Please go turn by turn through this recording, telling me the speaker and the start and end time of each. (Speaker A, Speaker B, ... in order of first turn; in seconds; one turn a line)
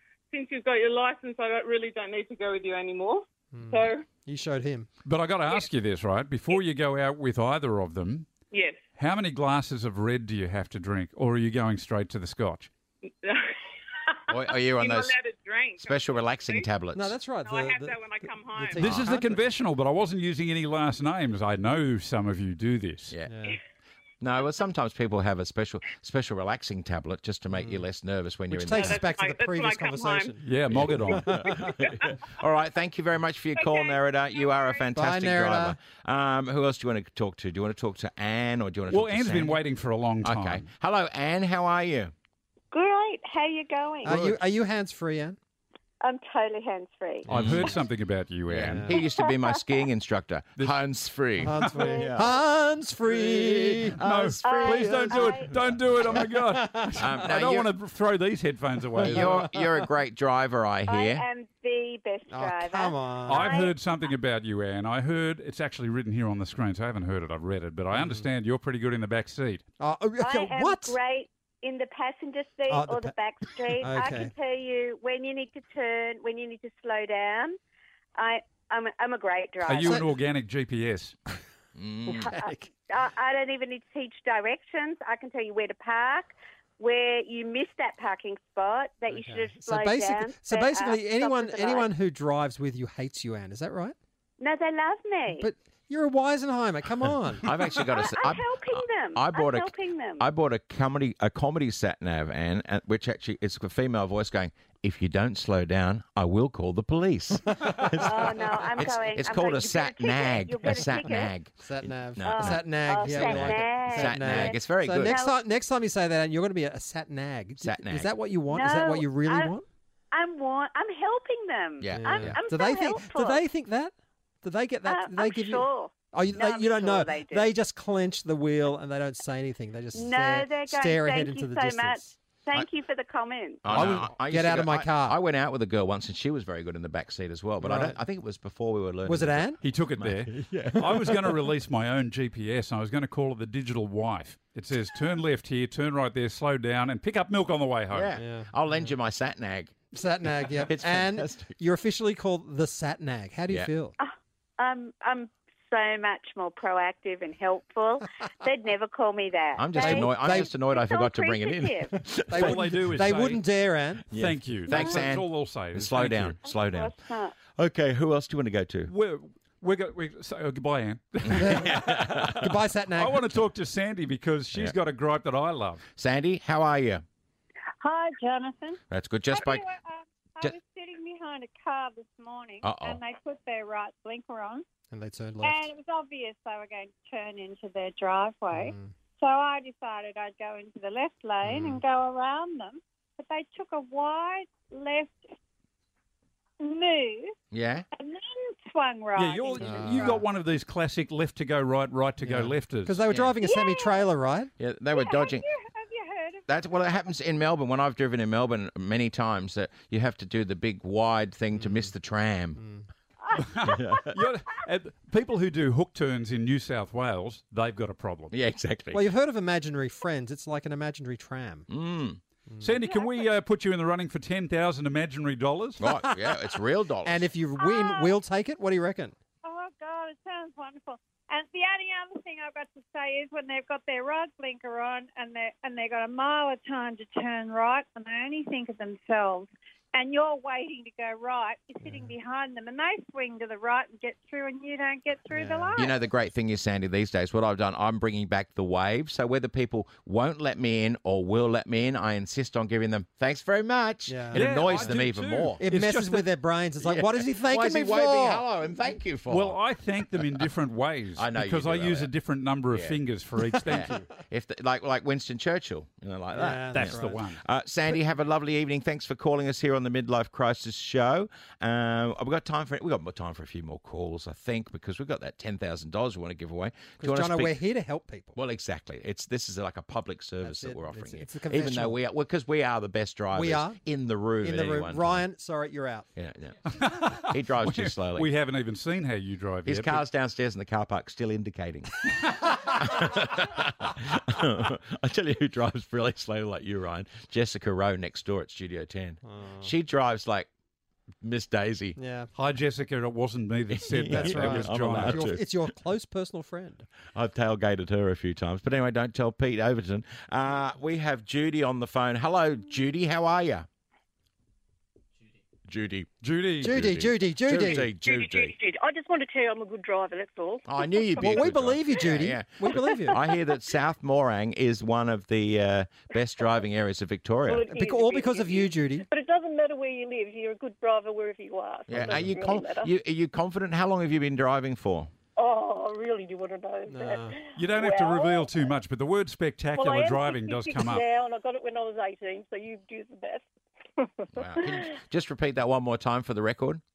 Speaker A: 0.3-4.0
Speaker B: 3.5-4.9
Speaker C: 5.0-8.3
Speaker A: 8.5-8.8
Speaker C: 8.9-12.7
Speaker A: 13.2-13.5
Speaker A: 14.1-16.7
Speaker D: 14.3-15.1
Speaker D: 15.8-17.2
Speaker B: 16.9-19.4
Speaker A: 17.4-18.9
Speaker C: 18.8-23.1
Speaker D: 23.1-23.5
Speaker B: 23.3-23.6
Speaker D: 24.2-29.1
Speaker B: 27.5-27.8
Speaker B: 28.5-30.4
Speaker A: 28.7-30.4
Speaker C: 30.4-31.6
Speaker D: 30.7-39.6
Speaker B: 31.1-31.7
Speaker B: 34.9-35.8
Speaker C: 38.9-40.6
Speaker D: 40.2-42.1
Speaker E: 42.7-44.2
Speaker B: 44.0-45.4
Speaker E: 46.0-47.3
Speaker B: 47.3-47.7
Speaker C: 47.3-49.0
Speaker D: 47.3-47.7
Speaker D: 48.5-52.4
Speaker B: 48.6-49.0
Speaker B: 51.4-54.0
Speaker E: 51.8-52.1
Speaker D: 53.0-56.2
Speaker C: 54.0-59.5
Speaker E: 54.4-55.5
Speaker B: 56.2-57.0
Speaker D: 57.0-57.7
Speaker D: 59.0-61.2
Speaker B: 59.0-59.7
Speaker E: 60.9-63.7
Speaker B: 62.3-63.5
Speaker C: 63.3-69.6
Speaker B: 67.9-68.3
Speaker B: 69.8-71.0
Speaker E: 70.2-77.6
Speaker B: 72.7-73.1
Speaker B: 73.8-74.3
Speaker E: 78.2-80.0
Speaker C: 79.7-81.1
Speaker D: 81.8-82.3
Speaker B: 82.1-82.7
Speaker E: 82.1-91.9
Speaker B: 89.1-94.0
Speaker E: 94.4-95.5
Speaker B: 95.4-97.5
Speaker D: 97.4-115.2
Speaker E: 97.8-100.3
Speaker B: 107.5-108.0
Speaker E: 108.0-111.3
Speaker B: 110.8-111.1
Speaker B: 111.6-119.6
Speaker E: 112.2-115.3
Speaker D: 117.6-118.1
Speaker E: 118.5-119.5
Speaker E: 120.1-123.4
Speaker D: 121.8-122.4
Speaker B: 121.9-132.2
Speaker E: 124.8-127.5
Speaker E: 129.9-133.6
Speaker D: 133.6-141.4
Speaker C: 133.7-134.1
Speaker B: 133.8-135.2
Speaker B: 137.6-138.0
Speaker B: 139.1-139.6
Speaker C: 139.6-148.1
Speaker D: 147.9-149.7
Speaker B: 148.2-148.9
Speaker B: 149.9-153.9
Speaker D: 150.3-151.5
Speaker E: 154.0-161.9
Speaker D: 159.6-162.7
Speaker B: 159.8-160.5
Speaker B: 162.3-164.1
Speaker C: 162.3-163.4
Speaker D: 164.1-167.0
Speaker C: 164.1-166.3
Speaker E: 166.5-167.3
Speaker D: 167.5-168.9
Speaker C: 168.9-175.8
Speaker D: 171.2-172.4
Speaker B: 171.3-173.3
Speaker D: 176.0-177.0
Speaker F: 177.8-184.6
Speaker D: 178.9-179.6
Speaker D: 182.6-183.0
Speaker B: 184.9-185.7
Speaker F: 185.4-195.3
Speaker B: 188.5-188.9
Speaker B: 191.4-191.8
Speaker F: 196.6-197.4
Speaker D: 197.5-197.8
Speaker F: 197.9-200.2
Speaker C: 199.1-203.0
Speaker B: 199.6-200.2
Speaker B: 202.2-204.5
Speaker D: 203.1-203.3
Speaker F: 203.4-204.1
Speaker D: 204.6-205.4
Speaker F: 204.9-206.5
Speaker D: 206.5-212.6
Speaker B: 211.6-211.9
Speaker B: 212.6-212.8
Speaker C: 213.5-218.3
Speaker D: 213.6-214.2
Speaker D: 218.3-219.1
Speaker B: 218.9-221.7
Speaker D: 221.7-222.2
Speaker B: 222.5-222.8
Speaker C: 222.6-225.8
Speaker F: 222.9-223.3
Speaker D: 225.8-227.3
Speaker B: 226.0-226.3
Speaker B: 227.0-229.1
Speaker F: 227.6-228.2
Speaker F: 229.4-245.9
Speaker B: 241.8-242.1
Speaker B: 245.3-245.8
Speaker D: 245.7-255.6
Speaker B: 254.1-254.9
Speaker C: 254.3-256.2
Speaker B: 255.6-258.4
Speaker D: 256.8-259.6
Speaker C: 259.3-264.1
Speaker D: 260.1-260.5
Speaker D: 261.1-262.1
Speaker D: 262.7-263.0
Speaker D: 263.6-277.6
Speaker B: 266.3-267.2
Speaker C: 266.7-267.4
Speaker B: 277.0-278.4
Speaker D: 278.3-285.2
Speaker B: 280.4-282.0
Speaker B: 283.3-283.8
Speaker B: 284.4-286.1
Speaker D: 286.1-288.3
Speaker C: 286.7-290.0
Speaker D: 289.6-300.5
Speaker B: 299.2-299.7
Speaker D: 301.2-302.0
Speaker B: 302.0-302.3
Speaker C: 302.3-305.4
Speaker D: 303.7-305.5
Speaker B: 304.1-306.9
Speaker D: 307.1-313.7
Speaker D: 315.7-318.5
Speaker C: 316.2-316.9
Speaker B: 316.6-317.9
Speaker G: 317.9-321.4
Speaker D: 320.6-327.7
Speaker B: 321.2-323.2
Speaker G: 327.4-332.9
Speaker B: 327.7-329.1
Speaker D: 331.9-335.1
Speaker B: 332.0-332.2
Speaker G: 335.4-338.7
Speaker B: 336.9-337.4
Speaker C: 337.6-341.1
Speaker G: 339.7-343.4
Speaker G: 344.0-344.9
Speaker D: 344.3-346.8